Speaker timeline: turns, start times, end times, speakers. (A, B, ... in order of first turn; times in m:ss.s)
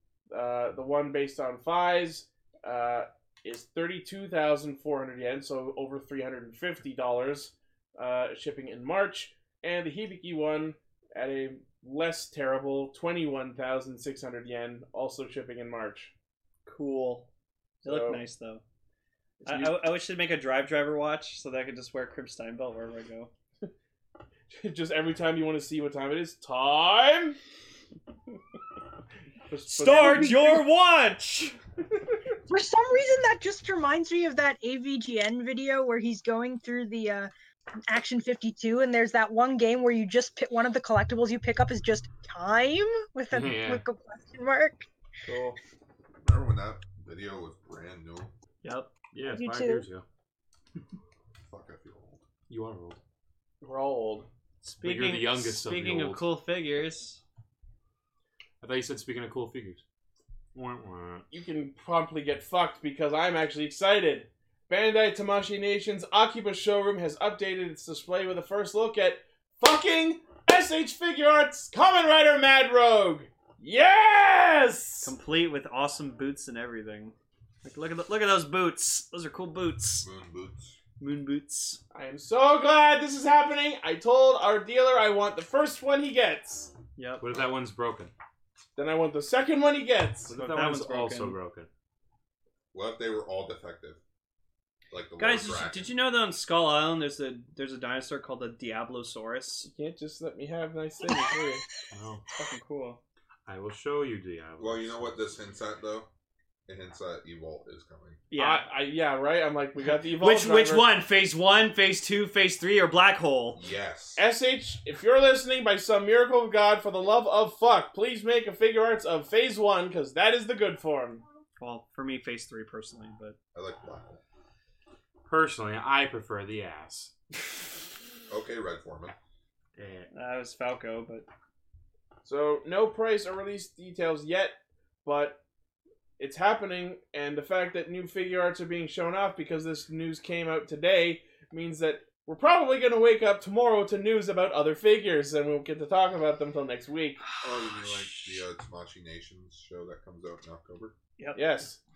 0:00.3-0:16.1 A
0:16.7-0:17.3 B
0:17.8-0:18.2 A
0:17.8-0:18.6 B
0:19.4-0:19.8 A
0:19.4-0:23.3 B
0:24.5-0:27.4 A
0:29.5-0:30.7 A
0:29.7-0:31.6 B
0:32.5-0:37.3 C
0:37.9-0:44.9 C
0:43.3-0:43.8 D
0:45.3-0:45.6 A
0:46.2-0:48.3 E
0:48.6-0:48.9 B
0:49.1-0:50.0 D
0:49.3-0:49.9 C
0:51.4-0:52.2 E
0:52.5-0:53.0 D
0:53.6-0:54.3 A
0:54.6-0:57.2 B
0:54.8-0:56.2 D
0:58.6-0:59.8 D
1:00.5-1:01.3 D
1:01.3-1:15.1 A
1:15.0-1:20.1 B
1:20.0-1:20.8 E
1:21.0-1:21.8 B
1:21.9-1:26.7 A
1:27.0-1:27.2 B
1:27.2-1:28.1 D
1:28.8-1:30.4 A
1:30.3-1:31.7 D
1:30.3-1:31.4 B
1:32.7-1:34.0 E
1:34.9-1:35.9 E
1:35.2-1:39.7 B
1:39.6-1:41.6 A
1:41.9-1:42.2 D
1:42.4-1:43.0 B
1:43.5-1:45.2 D
1:44.6-1:46.1 E
1:46.7-1:48.2 E
1:48.3-1:48.6 B
1:48.3-1:50.9 A
1:50.1-1:53.6 B
1:53.5-1:54.2 E
1:54.2-2:01.2 A
2:01.6-2:03.4 B
2:03.5-2:04.2 E
2:05.3-2:07.1 D
2:08.3-2:09.2 E
2:09.8-2:10.1 D
2:10.1-2:11.3 B
2:12.2-2:15.4 A
2:16.2-2:27.2 A
2:27.2-2:28.4 B
2:27.4-2:31.0 E
2:31.4-2:31.8 A